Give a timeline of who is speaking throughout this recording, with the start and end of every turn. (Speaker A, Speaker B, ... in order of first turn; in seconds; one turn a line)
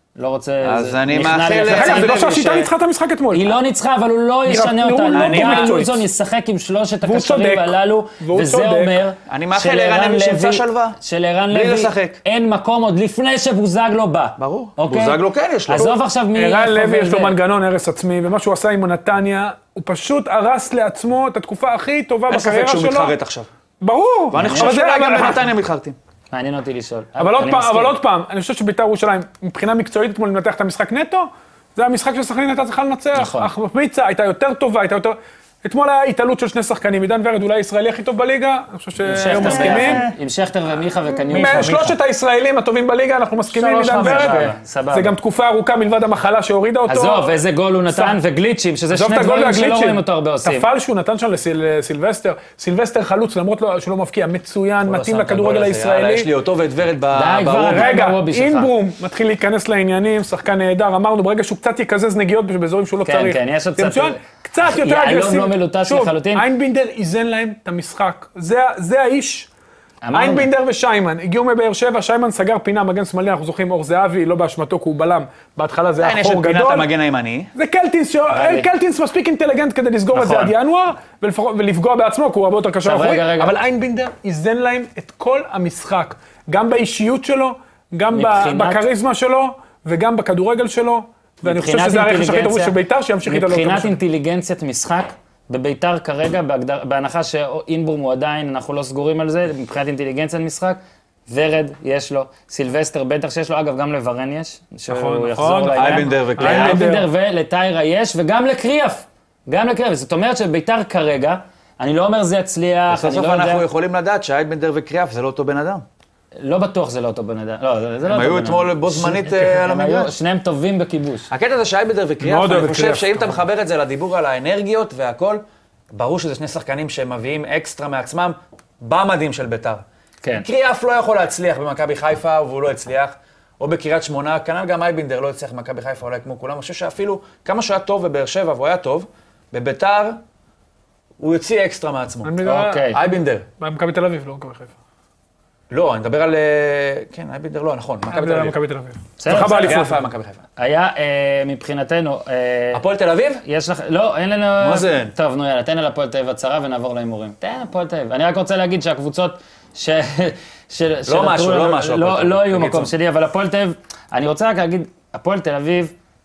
Speaker A: 0.2-2.2
Speaker B: 0.6-2.7
Speaker C: 1.6-3.5
Speaker A: 3.3-17.4
Speaker C: 4.5-6.0
Speaker B: 5.1-5.7
Speaker C: 7.0-9.0
Speaker B: 9.3-11.0
Speaker B: 11.5-12.2
Speaker B: 14.4-15.9
Speaker C: 15.8-23.1
Speaker B: 22.3-23.5
Speaker C: 23.8-25.4
Speaker B: 24.3-25.9
Speaker A: 24.4-24.7
Speaker A: 26.3-28.0
Speaker C: 27.2-40.0
Speaker A: 33.1-33.5
Speaker A: 39.0-42.0
Speaker B: 39.3-40.2
Speaker C: 41.3-48.2
Speaker B: 43.5-44.5
Speaker A: 44.0-45.1
Speaker A: 46.9-50.7
Speaker C: 48.9-56.3
Speaker B: 54.8-57.9
Speaker A: 57.1-58.7
Speaker C: 57.5-69.5
Speaker A: 63.0-66.5
Speaker A: 70.0-70.5
Speaker C: 70.1-76.9
Speaker B: 76.0-77.5
Speaker C: 77.5-94.0
Speaker A: 78.3-78.7
Speaker A: 80.1-80.5
Speaker A: 82.8-83.5
Speaker A: 88.1-88.8
Speaker A: 91.4-113.6
Speaker C: 104.9-107.1
Speaker B: 105.8-106.9
Speaker B: 112.9-115.8
Speaker A: 116.4-121.3
Speaker B: 118.1-120.1
Speaker B: 121.3-129.8
Speaker C: 122.2-123.3
Speaker B: 130.4-140.2
Speaker B: 141.2-143.4
Speaker C: 142.2-142.9
Speaker A: 142.4-143.0
Speaker C: 143.6-144.7
Speaker B: 145.7-148.6
Speaker C: 148.1-150.0
Speaker A: 149.2-149.8
Speaker B: 149.3-150.4
Speaker A: 150.6-152.8
Speaker B: 152.7-153.4
Speaker A: 153.4-165.9
Speaker B: 154.6-155.1
Speaker B: 161.1-162.9